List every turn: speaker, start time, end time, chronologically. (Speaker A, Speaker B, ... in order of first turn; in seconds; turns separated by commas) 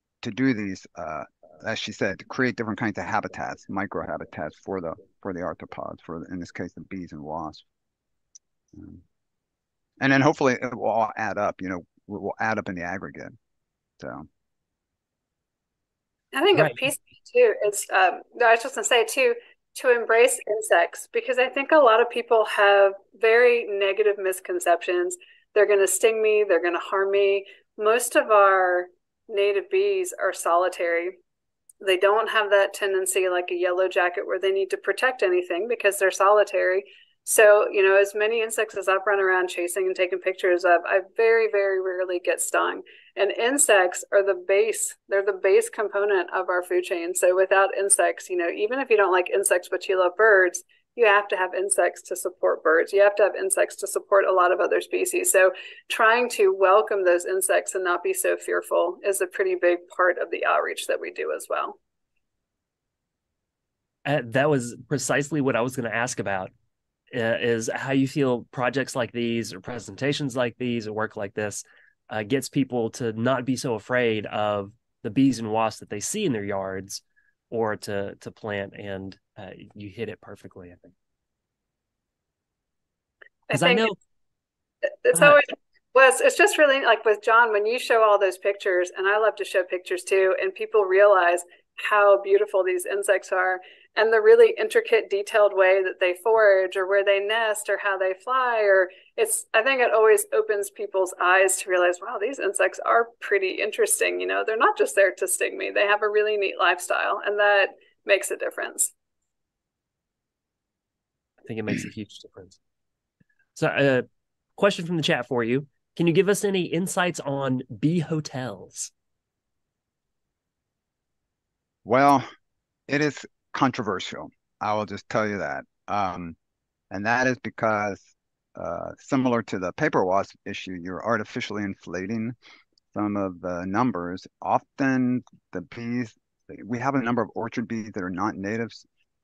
Speaker A: 0.2-7.7, Speaker A: 8.8-9.0, Speaker A: 10.0-13.3, Speaker A: 14.0-14.3, Speaker B: 16.3-31.2, Speaker C: 16.5-16.8, Speaker B: 31.8-61.8, Speaker C: 64.0-66.5, Speaker C: 67.1-80.9, Speaker B: 83.5-83.9, Speaker C: 83.5-83.9, Speaker B: 85.0-108.9, Speaker C: 85.1-85.4, Speaker C: 111.4-112.6, Speaker C: 113.5-118.9, Speaker A: 121.8-122.3, Speaker A: 122.9-126.3, Speaker A: 126.9-132.3, Speaker A: 132.9-138.8